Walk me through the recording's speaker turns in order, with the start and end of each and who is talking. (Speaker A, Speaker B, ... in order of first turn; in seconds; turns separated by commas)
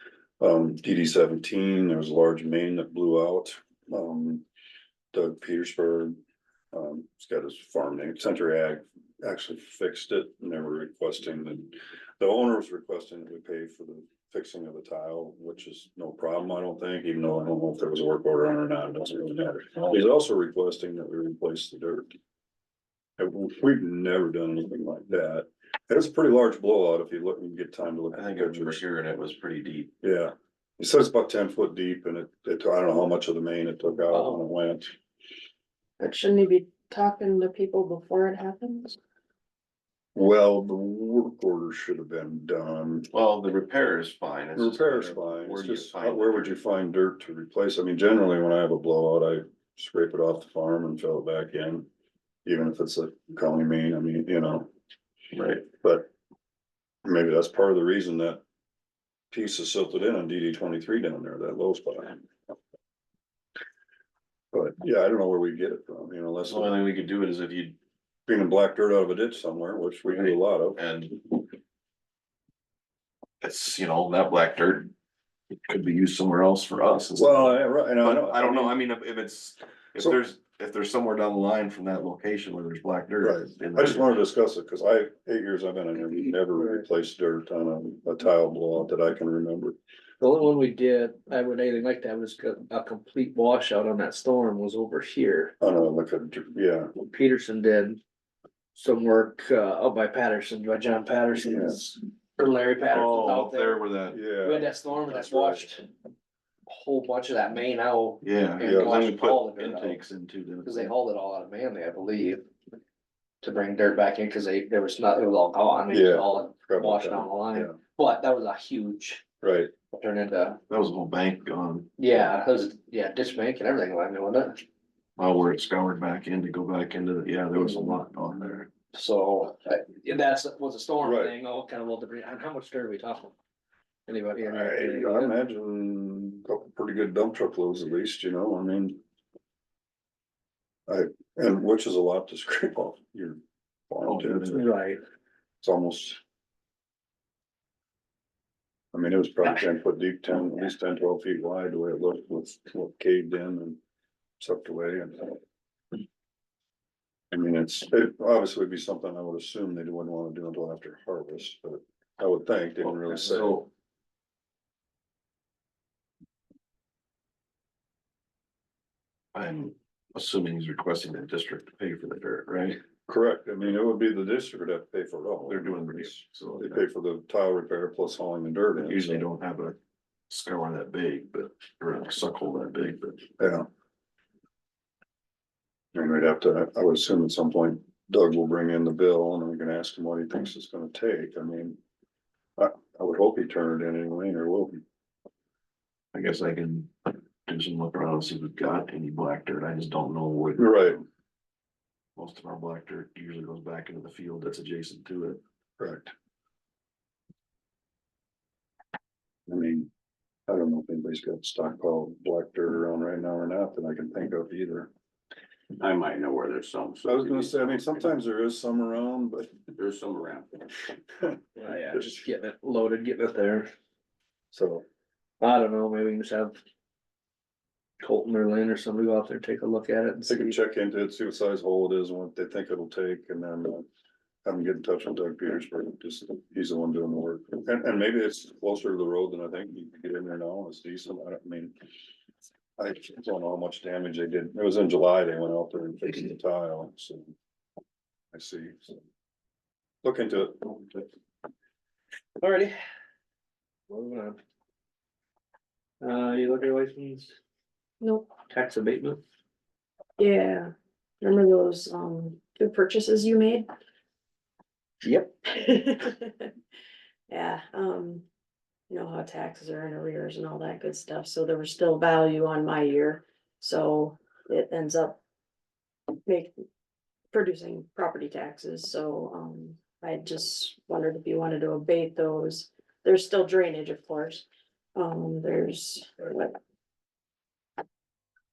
Speaker A: 0.4-4.4, Speaker A: 5.1-6.2, Speaker A: 6.7-22.1, Speaker A: 23.2-28.8, Speaker B: 28.1-29.9, Speaker A: 30.0-35.0, Speaker C: 34.1-34.5, Speaker D: 36.0-39.0, Speaker A: 40.1-43.1, Speaker B: 43.1-46.6, Speaker A: 44.5-51.9, Speaker A: 52.5-54.7, Speaker B: 55.3-55.7, Speaker A: 55.8-56.1, Speaker A: 57.0-58.4, Speaker A: 59.3-62.2, Speaker A: 64.5-66.8, Speaker B: 66.5-67.8, Speaker A: 68.3-70.8, Speaker B: 70.1-71.4, Speaker B: 73.4-74.9, Speaker B: 75.7-84.2, Speaker A: 77.2-78.8, Speaker A: 83.2-89.8, Speaker C: 90.2-95.5, Speaker A: 95.6-96.9, Speaker C: 97.0-98.0, Speaker C: 98.8-103.8, Speaker A: 101.5-101.8, Speaker B: 102.9-104.2, Speaker A: 104.1-105.7, Speaker C: 104.4-105.9, Speaker C: 106.7-110.0, Speaker B: 108.2-110.9, Speaker A: 108.6-108.9, Speaker C: 110.6-112.5, Speaker C: 113.4-119.2, Speaker A: 115.9-117.8, Speaker A: 119.4-119.7, Speaker C: 119.9-120.6, Speaker B: 120.7-121.9, Speaker C: 122.0-124.6, Speaker B: 125.2-128.7, Speaker C: 127.7-128.0, Speaker C: 128.9-133.3, Speaker A: 131.0-131.3, Speaker C: 134.1-135.3, Speaker A: 134.4-139.0, Speaker A: 140.9-144.7, Speaker B: 144.0-144.7, Speaker C: 144.5-145.0, Speaker A: 145.6-146.2, Speaker A: 148.9-153.8, Speaker A: 154.4-155.4, Speaker A: 157.3-163.7, Speaker B: 162.8-163.7, Speaker B: 169.3-172.8, Speaker A: 173.1-179.2, Speaker B: 175.5-176.8, Speaker B: 178.8-179.8, Speaker B: 180.3-183.3, Speaker A: 183.4-183.7, Speaker A: 185.9-191.8, Speaker A: 192.6-194.8, Speaker B: 196.1-201.0, Speaker A: 200.6-201.0, Speaker B: 202.2-205.4, Speaker A: 205.8-206.1, Speaker A: 209.5-209.9, Speaker A: 210.5-214.9, Speaker E: 215.8-217.5, Speaker A: 217.0-219.6, Speaker E: 219.8-220.5, Speaker C: 221.6-223.7, Speaker A: 224.5-224.8, Speaker C: 225.4-226.6, Speaker C: 228.0-230.6, Speaker A: 230.3-233.9, Speaker A: 234.4-241.7, Speaker A: 242.8-247.3, Speaker A: 248.3-249.0, Speaker A: 250.0-251.1, Speaker C: 252.4-252.8, Speaker C: 253.9-254.4, Speaker C: 256.0-257.4, Speaker D: 258.0-258.3, Speaker C: 258.5-259.2, Speaker D: 260.2-263.7, Speaker C: 265.0-265.3, Speaker D: 265.4-266.5, Speaker D: 267.3-268.2, Speaker D: 268.9-275.2, Speaker D: 276.2-276.5, Speaker D: 277.3-286.6